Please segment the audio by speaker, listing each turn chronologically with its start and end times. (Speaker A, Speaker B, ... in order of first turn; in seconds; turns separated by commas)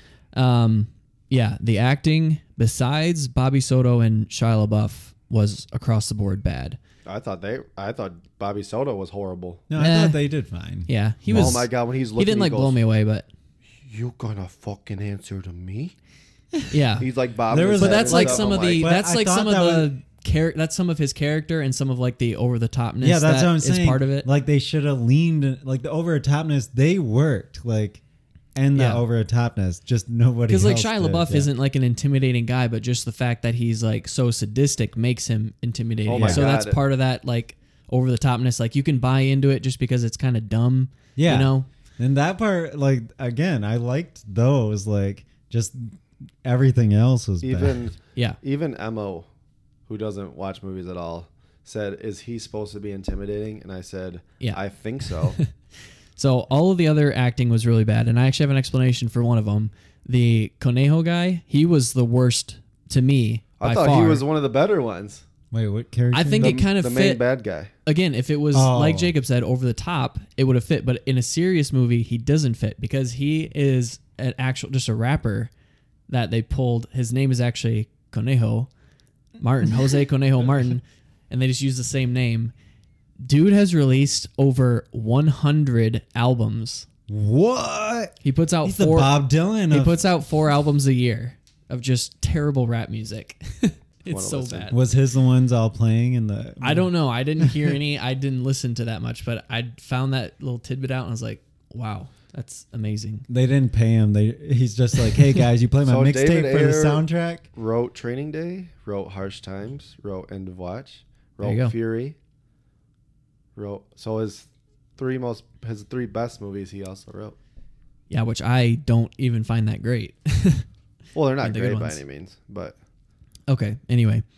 Speaker A: 0.3-6.8, Speaker B: 7.1-9.7, Speaker C: 9.7-11.7, Speaker A: 9.8-10.2, Speaker A: 10.9-13.3, Speaker B: 11.3-12.8, Speaker B: 13.9-15.9, Speaker A: 16.7-17.1, Speaker B: 17.0-18.9, Speaker C: 17.5-19.9, Speaker A: 17.8-24.3, Speaker C: 23.0-28.0, Speaker C: 28.6-31.5, Speaker A: 28.7-29.0, Speaker A: 30.5-41.7, Speaker B: 36.1-36.8, Speaker C: 36.2-36.5, Speaker C: 41.2-47.9, Speaker B: 47.4-49.3, Speaker B: 49.9-55.4, Speaker A: 56.2-64.2, Speaker B: 63.6-65.2, Speaker C: 65.5-66.6, Speaker A: 66.1-67.2, Speaker B: 66.4-67.7, Speaker A: 67.9-75.5, Speaker C: 68.5-69.1, Speaker A: 76.1-78.7, Speaker A: 79.4-82.5, Speaker A: 83.2-86.9, Speaker C: 87.1-90.0, Speaker A: 88.2-94.8, Speaker B: 94.1-94.7, Speaker C: 94.7-97.7, Speaker A: 96.6-103.3, Speaker C: 103.3-107.5, Speaker B: 105.8-112.2, Speaker A: 111.4-111.7, Speaker B: 113.6-117.4, Speaker A: 118.1-120.7, Speaker B: 121.1-122.8, Speaker A: 121.4-122.0, Speaker A: 123.5-124.2